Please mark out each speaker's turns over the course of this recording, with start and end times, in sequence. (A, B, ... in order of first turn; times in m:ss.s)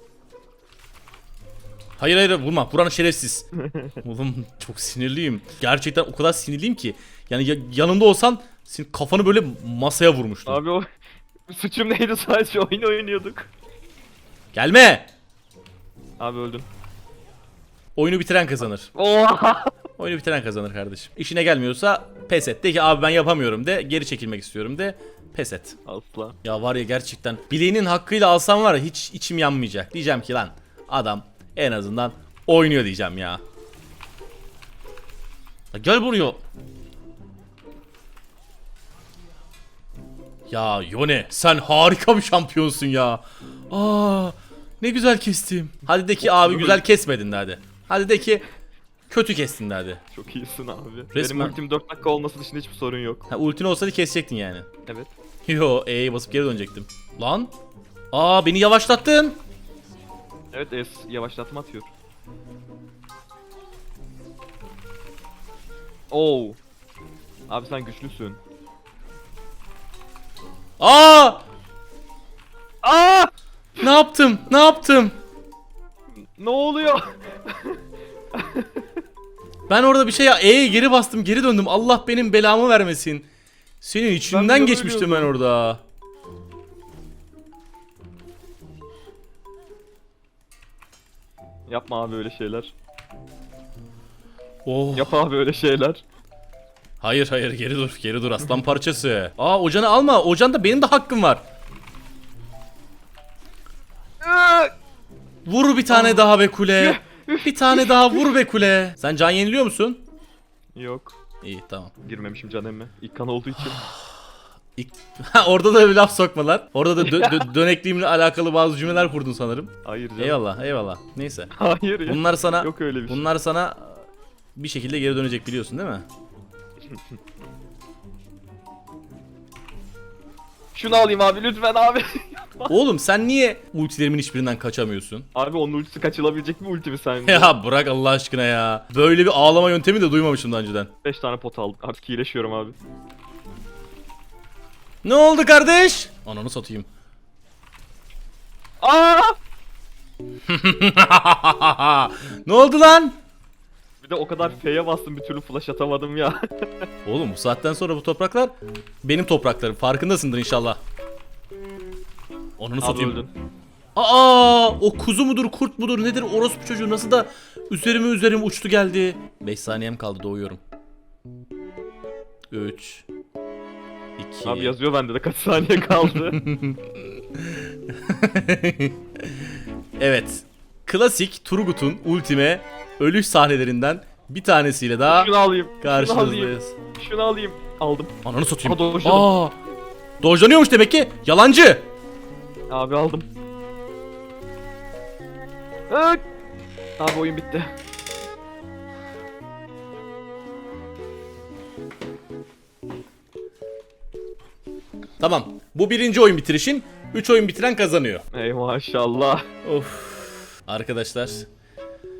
0:02.0-0:03.5 A
0:03.6-0:04.0 B
0:04.0-0:10.6 A
0:10.5-0:10.9 B
0:11.5-0:13.5 B
0:14.5-0:15.1 A
0:16.2-0:16.7 B
0:18.0-0:18.9 A
0:18.9-0:19.7 B
0:20.0-0:25.8 A
0:25.9-0:26.4 B
0:26.4-0:33.4 A
0:35.7-0:36.4 A
0:40.5-0:48.5 A
0:46.2-0:46.8 B
0:49.1-0:50.0 A
0:50.1-0:53.3 B
0:51.1-0:51.6 A
0:53.3-0:54.7 A
0:54.9-0:55.1 B
0:55.5-0:57.5 A
0:58.1-0:59.4 A
1:00.5-1:01.9 B
1:06.1-1:06.6 B
1:07.5-1:08.4 B
1:10.8-1:11.4 A
1:12.8-1:13.3 B
1:13.8-1:15.2 A
1:16.4-1:17.8 B
1:18.3-1:18.9 B
1:19.7-1:23.3 A
1:23.8-1:25.8 A
1:24.3-1:25.3 B
1:31.7-1:32.7 B
1:34.6-1:35.2 A
1:34.9-1:36.0 B
1:37.0-1:41.4 A
1:44.2-1:44.7 B
1:45.4-1:50.1 A
1:45.9-1:48.3 B
1:50.8-1:51.2 B
1:51.4-1:51.9 A
1:52.0-1:53.9 B
1:54.8-2:01.5 A
1:57.0-1:57.4 B
1:59.8-2:00.4 B
2:01.5-2:03.2 B
2:02.0-2:04.0 A
2:04.6-2:06.1 A
2:10.7-2:12.8 B
2:12.7-2:15.3 A
2:15.3-2:17.5 B
2:17.2-2:20.9 A
2:21.0-2:22.8 B
2:25.0-2:26.9 A
2:28.8-2:29.4 B
2:30.5-2:33.2 A
2:34.0-2:36.9 B
2:37.0-2:40.8 A
2:42.6-2:43.3 A
2:42.8-2:43.3 B
2:44.0-2:50.6 A
2:52.5-2:53.0 A
2:54.2-2:54.8 A
2:54.4-2:56.4 B
2:56.3-2:59.4 A
3:00.0-3:06.8 A
3:05.1-3:09.3 B
3:08.2-3:09.6 A
3:10.2-3:11.9 A
3:12.7-3:13.3 B
3:15.9-3:16.2 B
3:17.0-3:17.7 B
3:25.2-3:28.2 A
3:28.3-3:29.5 B
3:29.6-3:31.5 A